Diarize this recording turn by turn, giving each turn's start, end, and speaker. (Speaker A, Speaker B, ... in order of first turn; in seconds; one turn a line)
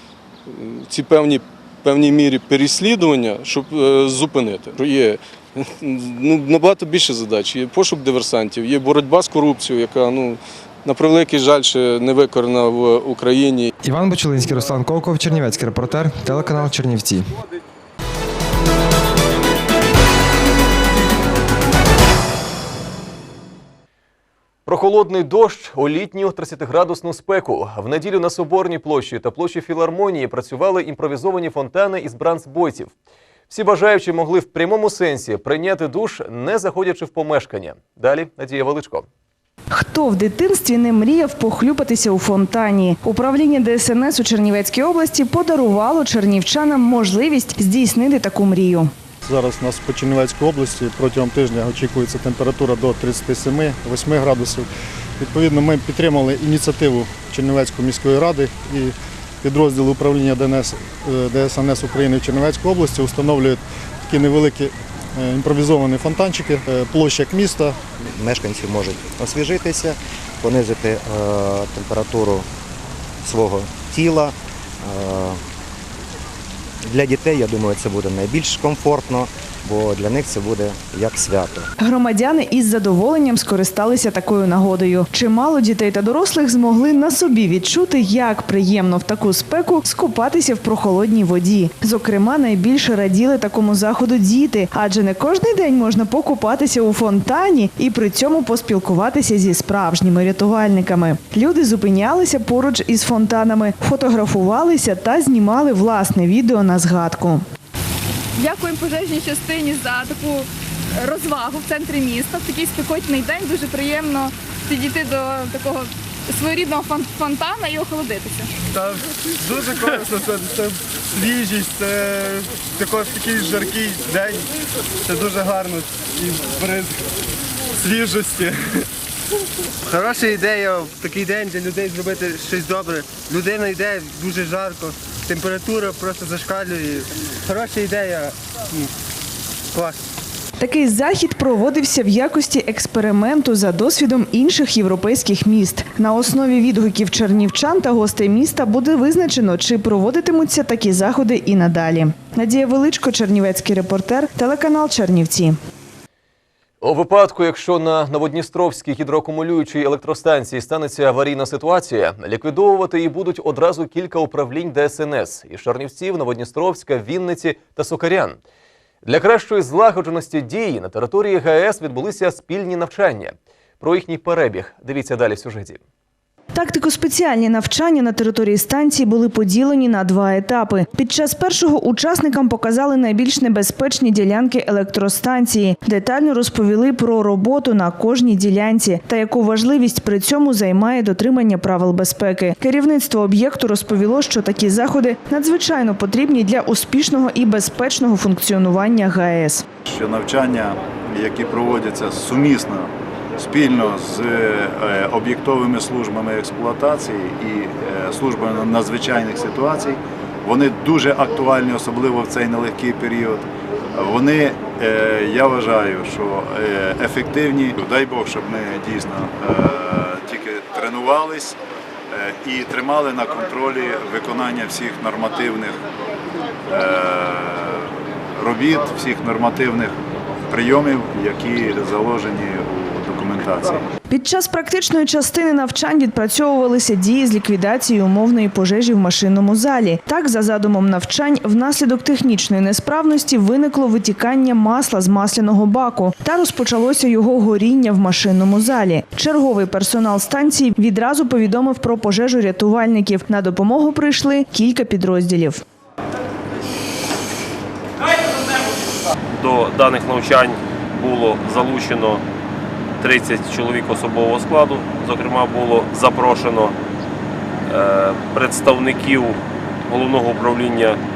Speaker A: 0.5-13.7
Speaker B: 13.8-17.3
Speaker C: 24.6-32.9
Speaker C: 33.5-39.0
Speaker D: 39.7-48.9
Speaker E: 49.2-54.7
Speaker E: 55.2-67.8
Speaker F: 68.2-72.5
Speaker F: 73.2-74.3
Speaker F: 74.8-75.4
Speaker F: 76.9-81.7
Speaker D: 81.8-107.4
Speaker G: 108.4-110.5
Speaker G: 111.0-118.5
Speaker H: 118.7-124.4
Speaker H: 125.0-127.0
Speaker H: 127.8-128.6
Speaker H: 129.9-138.8
Speaker D: 140.6-155.5
Speaker C: 156.8-168.4
Speaker C: 169.0-175.8
Speaker D: 176.5-199.6
Speaker I: 199.8-221.6
Speaker I: 222.1-225.8
Speaker I: 226.7-229.9
Speaker I: 230.5-233.8
Speaker D: 234.1-255.6
Speaker J: 259.4-262.2
Speaker J: 263.0-266.8
Speaker J: 267.7-271.0